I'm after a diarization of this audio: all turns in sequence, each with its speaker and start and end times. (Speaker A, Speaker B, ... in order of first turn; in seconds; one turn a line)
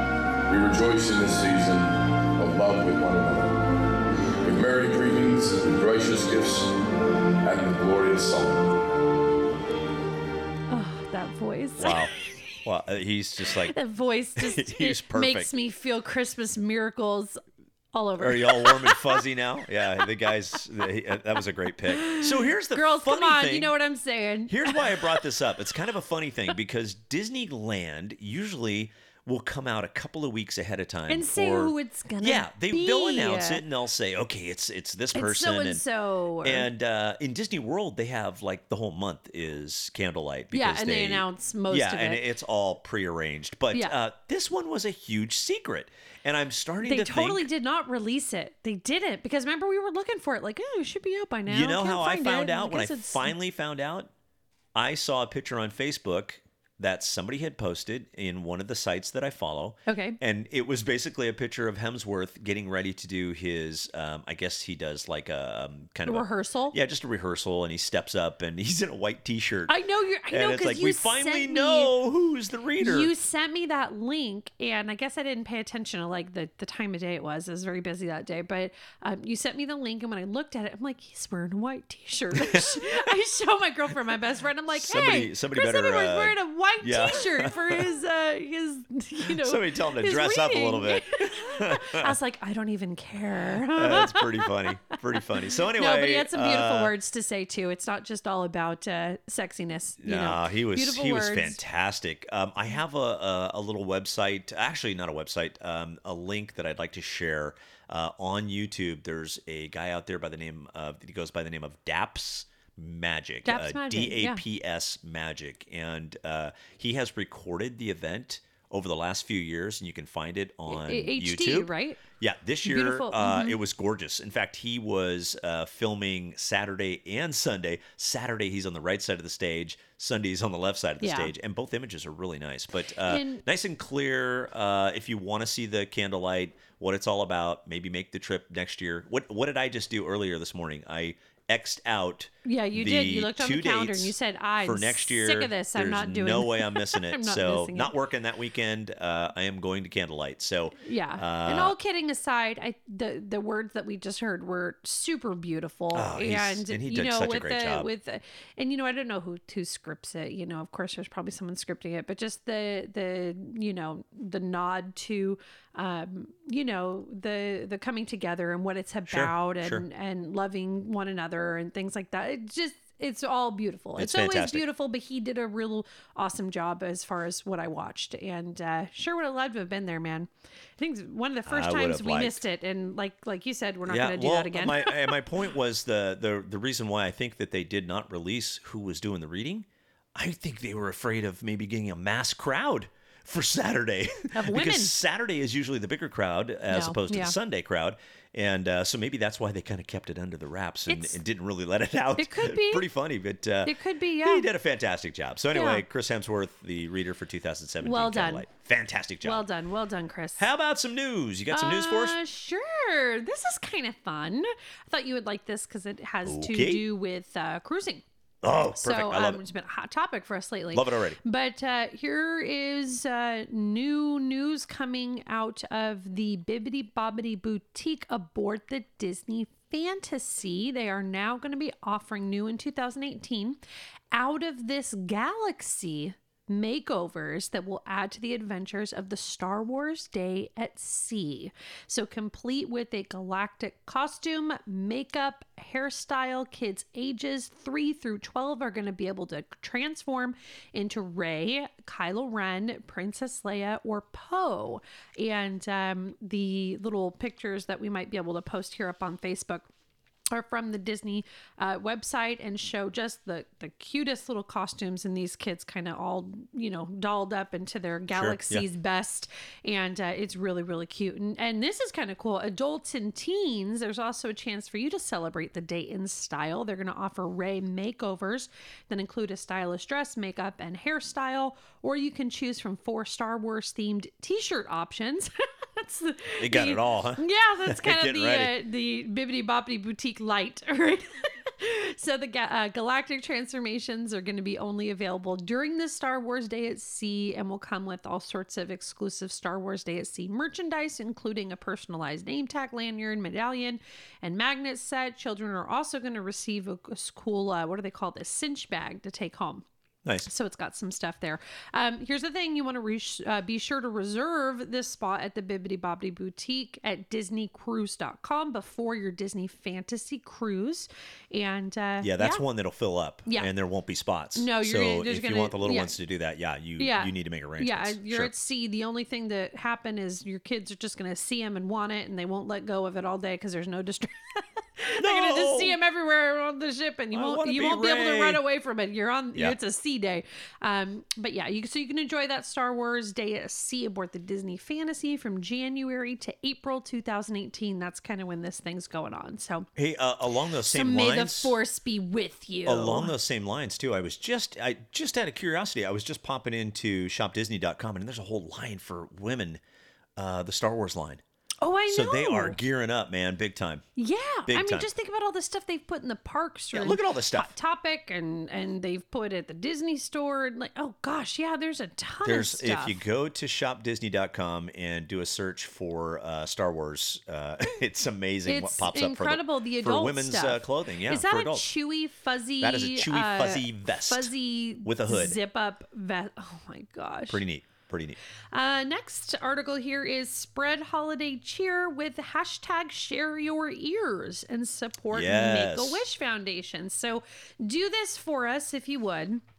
Speaker A: 0.5-3.6
Speaker A: 4.4-6.7
Speaker A: 7.4-8.7
Speaker B: 10.7-12.1
Speaker C: 11.8-12.1
Speaker C: 12.6-13.8
Speaker B: 13.6-17.4
Speaker C: 14.4-15.5
Speaker B: 17.9-19.2
Speaker C: 18.2-23.8
Speaker B: 21.9-25.2
Speaker C: 24.5-35.8
Speaker B: 31.1-33.6
Speaker B: 35.1-36.7
Speaker C: 36.4-47.5
Speaker B: 40.5-42.2
Speaker B: 46.8-53.3
Speaker C: 51.5-54.1
Speaker C: 54.8-69.7
Speaker B: 59.9-60.2
Speaker B: 66.0-66.8
Speaker B: 69.7-72.0
Speaker C: 70.3-73.1
Speaker B: 72.8-94.5
Speaker C: 82.3-83.1
Speaker C: 84.7-87.9
Speaker C: 89.2-92.1
Speaker C: 93.6-96.9
Speaker B: 95.7-101.6
Speaker C: 100.0-151.8
Speaker B: 113.5-114.4
Speaker B: 120.7-122.0
Speaker B: 122.7-123.6
Speaker B: 131.0-131.3
Speaker B: 133.1-133.4
Speaker B: 142.4-147.9
Speaker B: 150.8-185.2
Speaker C: 155.9-157.9
Speaker C: 169.1-169.9
Speaker C: 174.0-174.7
Speaker C: 181.5-182.4
Speaker C: 183.9-209.5
Speaker B: 194.3-194.9
Speaker B: 196.7-197.3
Speaker B: 200.9-201.2
Speaker B: 202.2-202.9
Speaker B: 203.7-204.5
Speaker B: 205.5-205.8
Speaker B: 207.8-208.5
Speaker B: 209.2-210.4
Speaker C: 210.4-212.2
Speaker B: 211.5-218.0
Speaker C: 216.2-216.9
Speaker C: 218.4-219.4
Speaker B: 218.7-233.6
Speaker C: 220.7-221.2
Speaker B: 234.1-259.7
Speaker B: 260.3-309.6
Speaker C: 268.1-268.6
Speaker C: 286.4-288.5
Speaker B: 310.2-322.4
Speaker C: 322.0-328.3
Speaker B: 324.4-325.9
Speaker B: 326.8-349.7
Speaker C: 335.0-335.8
Speaker C: 337.1-338.4
Speaker C: 349.8-351.6
Speaker B: 350.7-353.1
Speaker C: 352.7-359.6
Speaker C: 360.2-361.2
Speaker B: 361.6-362.6
Speaker C: 361.9-363.9
Speaker B: 364.0-373.0
Speaker C: 364.5-364.9
Speaker C: 366.7-367.5
Speaker C: 372.2-381.7
Speaker B: 378.5-387.4
Speaker C: 382.6-384.3
Speaker C: 384.8-385.4
Speaker C: 387.3-388.2
Speaker B: 388.5-399.4
Speaker C: 395.1-396.1